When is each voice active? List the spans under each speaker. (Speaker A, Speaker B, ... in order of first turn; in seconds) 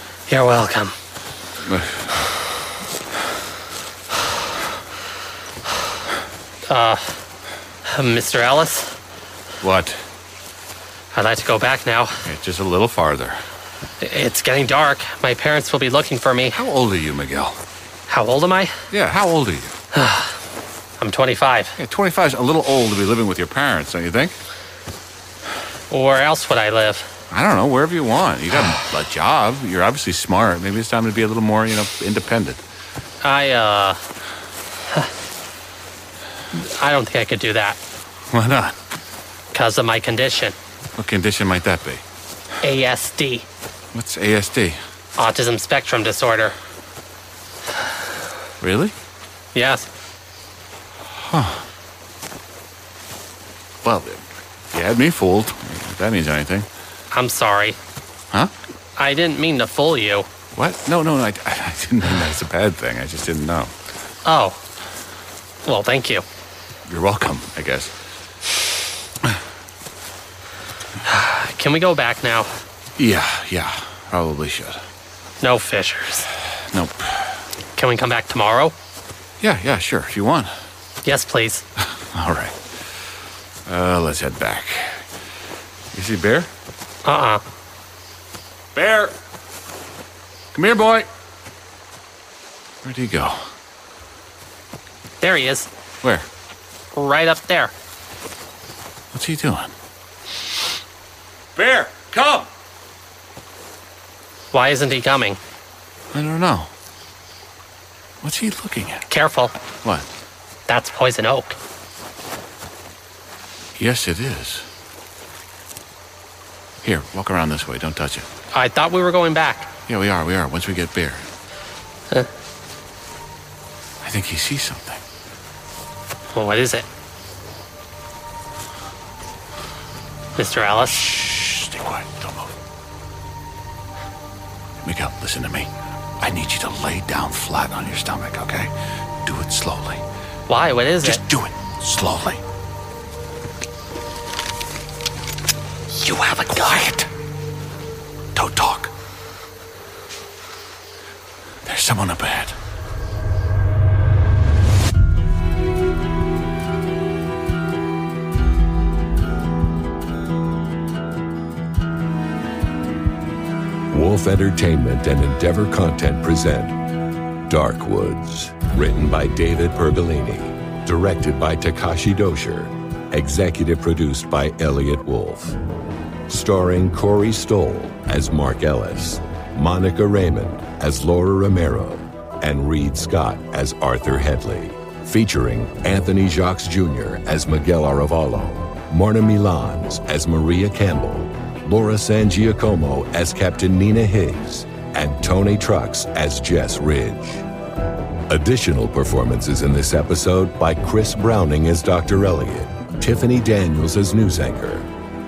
Speaker A: 0.3-0.9, 6.7-7.1, 7.9-8.9, 11.1-12.2, 14.0-16.6, 18.1-18.8, 19.9-20.3, 21.0-21.7, 25.9-27.1, 33.2-34.0, 36.5-37.8, 39.5-40.5, 42.6-43.5, 45.2-46.5, 49.5-49.9, 57.1-57.8, 59.0-60.3, 64.2-64.6, 65.7-66.2, 71.1-72.5, 75.4-76.3, 77.8-78.7, 81.0-81.6, 87.0-87.4, 95.2-95.7, 96.9-97.7, 104.5-105.4, 109.1-109.5, 110.7-111.6, 118.5-119.7, 126.3-126.8, 130.3-131.1, 140.5-141.2
Speaker B: 1.6-2.2, 9.6-10.0, 12.2-13.4, 16.5-17.6, 18.9-19.8, 21.8-24.4, 27.3-32.6, 38.3-38.7, 41.0-42.0, 43.9-44.8, 48.6-48.9, 51.2-51.6, 53.8-56.7, 60.5-63.7, 66.9-67.9, 73.0-74.8, 76.7-77.4, 79.4-80.5, 81.8-82.9, 83.7-85.0, 85.9-86.5, 88.7-89.1, 90.5-91.1, 92.8-93.5, 99.1-99.7, 101.5-102.5, 106.1-106.7, 108.2-109.0, 113.8-114.7, 116.8-118.3, 119.9-121.3, 124.0-125.0, 131.0-132.6, 134.8-138.7, 139.2-140.0, 141.0-142.4, 145.9-147.1, 148.3-148.9, 151.6-152.6
Speaker C: 163.9-166.7, 167.5-175.6, 176.3-197.4, 198.3-204.9